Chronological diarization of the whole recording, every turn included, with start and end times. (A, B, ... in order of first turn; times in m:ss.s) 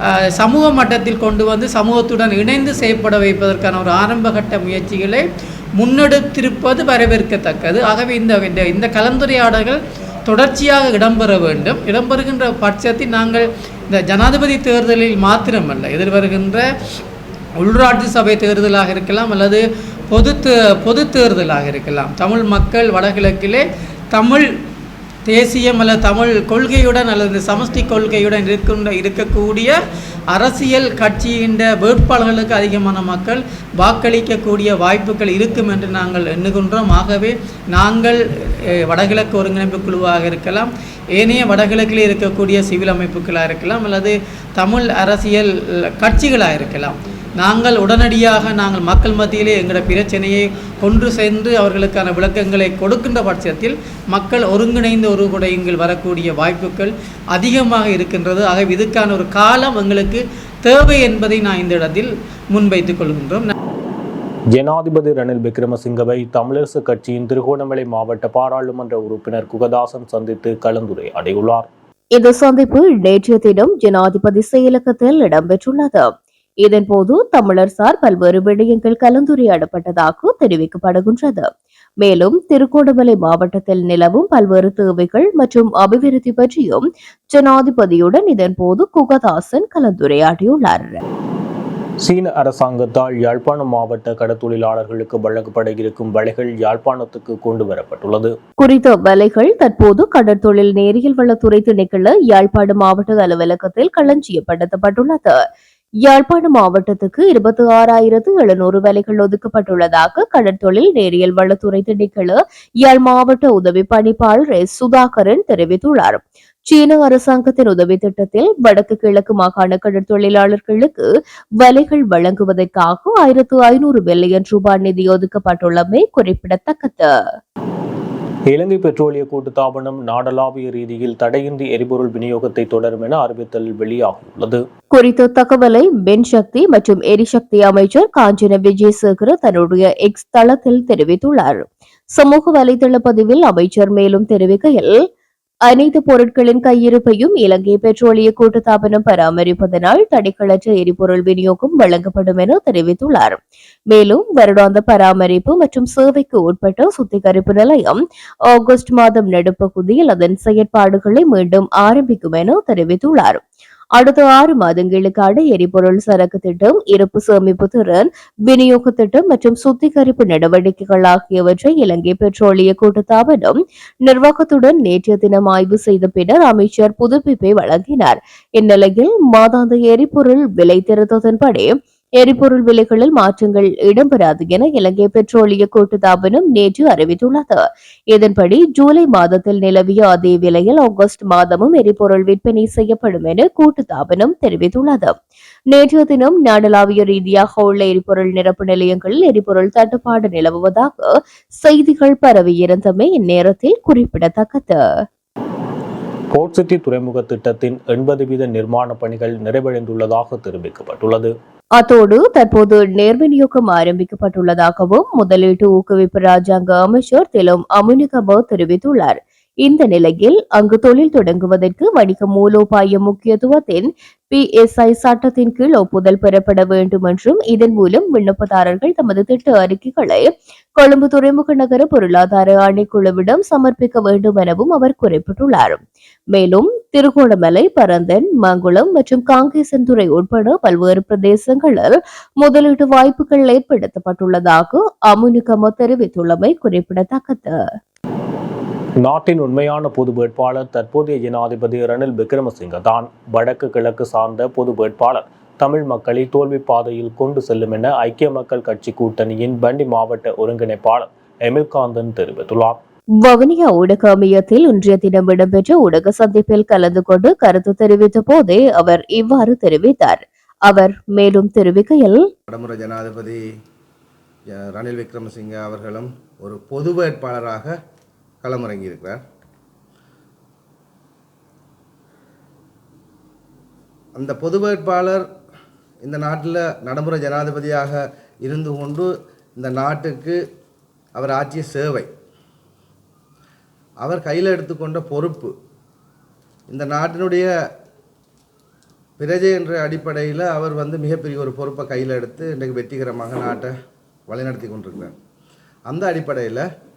0:00.2-0:05.2 A
0:05.8-0:16.7 A
0:17.6-0:24.5 A
0:25.3-0:29.7 A
0:30.3-1:03.5 A
1:04.6-1:11.7 B
1:12.2-1:16.1 C
1:16.6-1:21.5 C
1:22.0-1:31.0 C
1:32.0-1:38.4 B
1:38.6-1:45.4 C
1:46.0-2:01.0 C
2:01.6-2:07.1 C
2:08.5-2:14.6 B
2:14.9-2:24.9 C
2:25.7-2:33.4 C
2:33.9-2:43.4 C
2:44.0-3:15.2 C
3:15.7-3:24.8 C
3:26.3-3:31.3 B
3:31.8-3:55.8 C
3:56.3-4:07.6 C
4:09.0-4:22.8 B
4:23.2-4:32.3 C
4:32.5-4:33.4 D
4:34.5-4:37.8 D
4:38.4-4:39.2 D
4:44.2-4:45.3 D
4:46.0-4:50.4 D
4:51.1-4:52.1 D
4:54.0-4:55.5 D
4:56.7-4:57.5 D
4:59.2-5:03.8 D
5:04.3-5:05.2 D
5:05.9-5:06.7 D